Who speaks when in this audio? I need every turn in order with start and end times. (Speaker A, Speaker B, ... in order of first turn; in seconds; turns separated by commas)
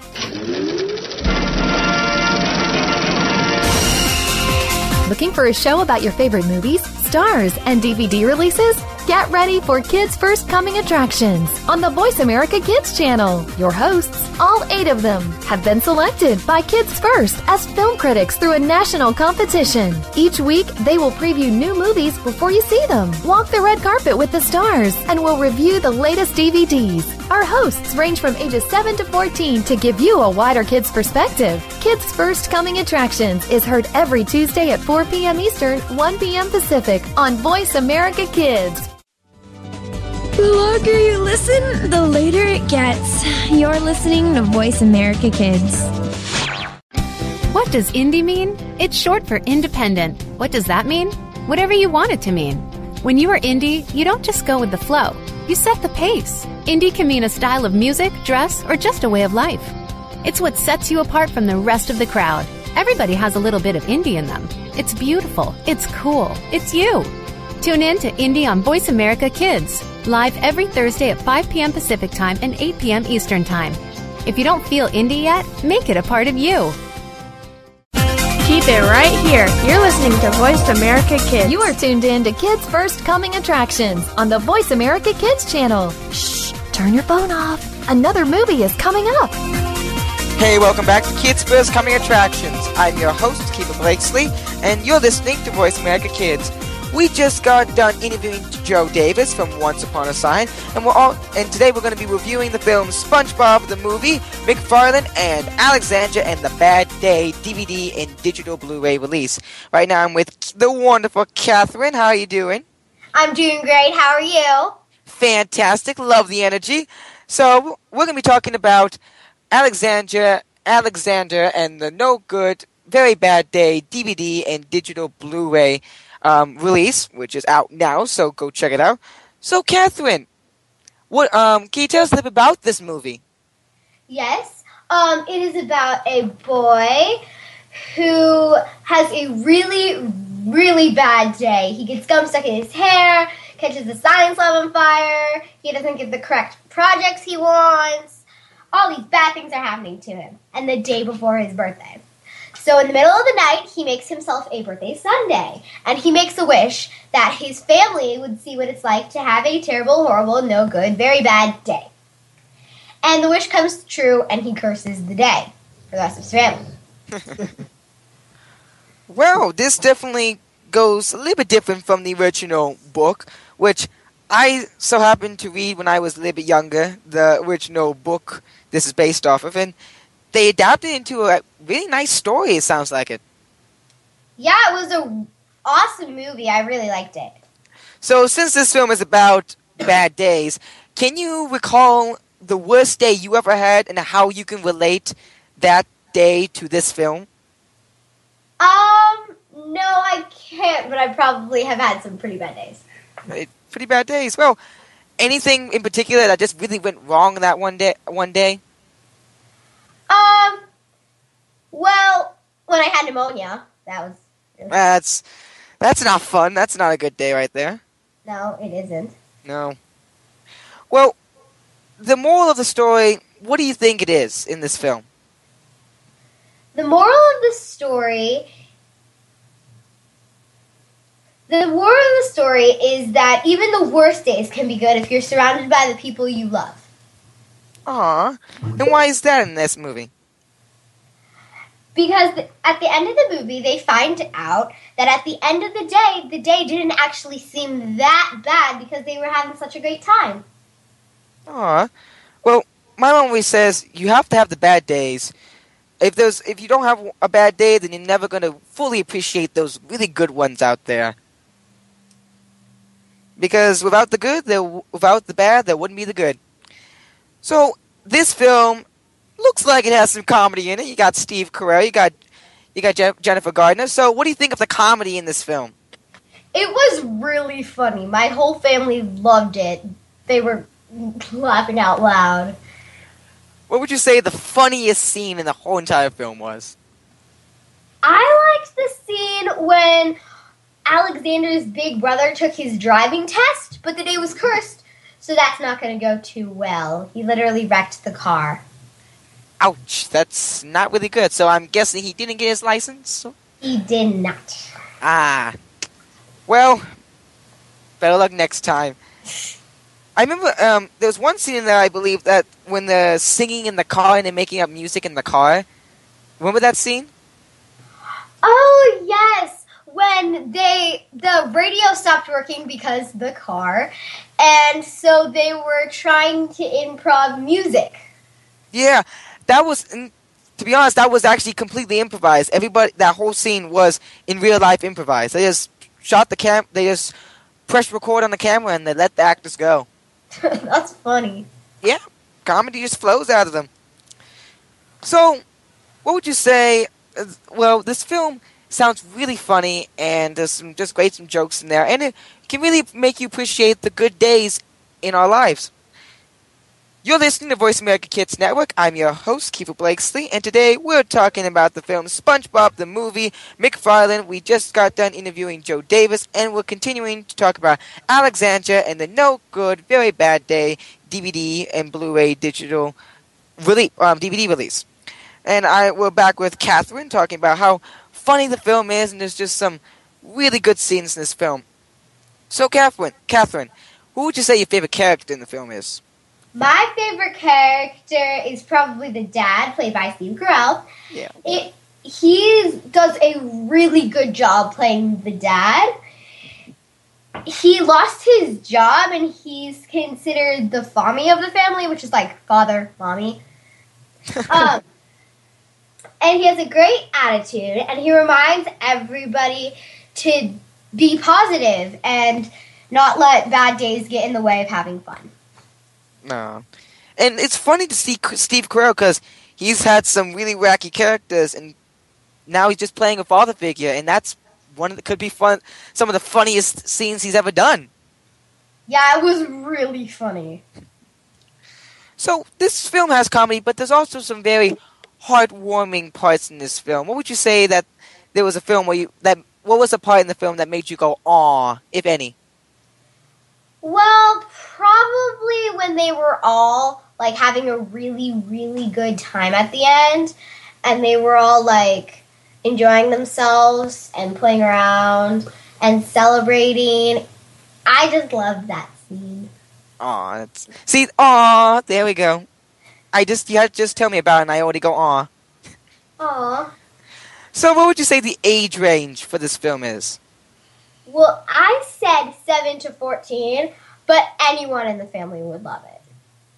Speaker A: 5.0-38.9, Speaker B: 40.4-45.9, Speaker C: 47.5-76.8, Speaker D: 78.4-81.7, Speaker A: 81.4-89.4, Speaker E: 90.4-112.7, Speaker F: 113.2-114.8, Speaker E: 115.1-119.0, Speaker E: 119.5-130.3, Speaker E: 131.1-133.2, Speaker F: 134.1-137.2, Speaker F: 137.9-148.2, Speaker F: 148.7-152.0, Speaker F: 152.6-161.9, Speaker F: 163.0-166.7, Speaker E: 169.1-179.8, Speaker E: 180.3-183.2, Speaker F: 184.4-187.4, Speaker E: 188.0-197.3, Speaker F: 198.6-202.8, Speaker E: 203.3-204.6, Speaker E: 205.2-208.6, Speaker F: 210.1-210.6, Speaker F: 211.7-214.7, Speaker E: 214.7-215.2, Speaker E: 215.8-217.8, Speaker F: 218.2-219.2, Speaker E: 219.4-219.8, Speaker E: 220.9-221.2, Speaker E: 222.0-225.1, Speaker F: 226.8-228.5, Speaker F: 231.5-236.8, Speaker E: 237.9-240.1, Speaker F: 241.9-250.4, Speaker E: 251.5-251.9, Speaker E: 252.4-255.3, Speaker E: 256.0-261.1, Speaker E: 263.4-266.4, Speaker E: 267.4-268.9, Speaker E: 269.4-272.2, Speaker E: 272.8-275.7, Speaker F: 276.5-282.6, Speaker E: 283.7-286.8, Speaker F: 288.0-290.2, Speaker F: 290.9-298.6, Speaker E: 299.6-303.3, Speaker F: 303.6-304.7, Speaker E: 305.0-305.6, Speaker E: 306.5-306.9, Speaker E: 308.0-309.0, Speaker E: 310.2-315.7, Speaker E: 316.4-317.1, Speaker F: 318.4-328.0, Speaker E: 328.7-337.1, Speaker E: 337.7-339.9, Speaker F: 340.4-341.5, Speaker E: 341.8-343.7, Speaker E: 345.0-345.4, Speaker E: 346.0-355.7, Speaker E: 357.0-372.9, Speaker E: 373.6-374.9, Speaker E: 375.4-381.6, Speaker E: 382.5-386.0, Speaker F: 386.6-390.9, Speaker E: 391.1-391.4, Speaker F: 391.4-395.9, Speaker F: 397.4-403.4, Speaker F: 404.5-404.8, Speaker F: 406.2-415.3, Speaker E: 416.2-416.6, Speaker E: 417.2-421.8, Speaker E: 422.5-427.9, Speaker F: 428.9-430.6, Speaker E: 432.2-442.3, Speaker F: 443.8-457.2, Speaker F: 457.9-459.5, Speaker E: 460.0-462.5, Speaker E: 463.1-465.3, Speaker F: 466.2-466.7, Speaker E: 467.5-470.2, Speaker F: 471.1-476.0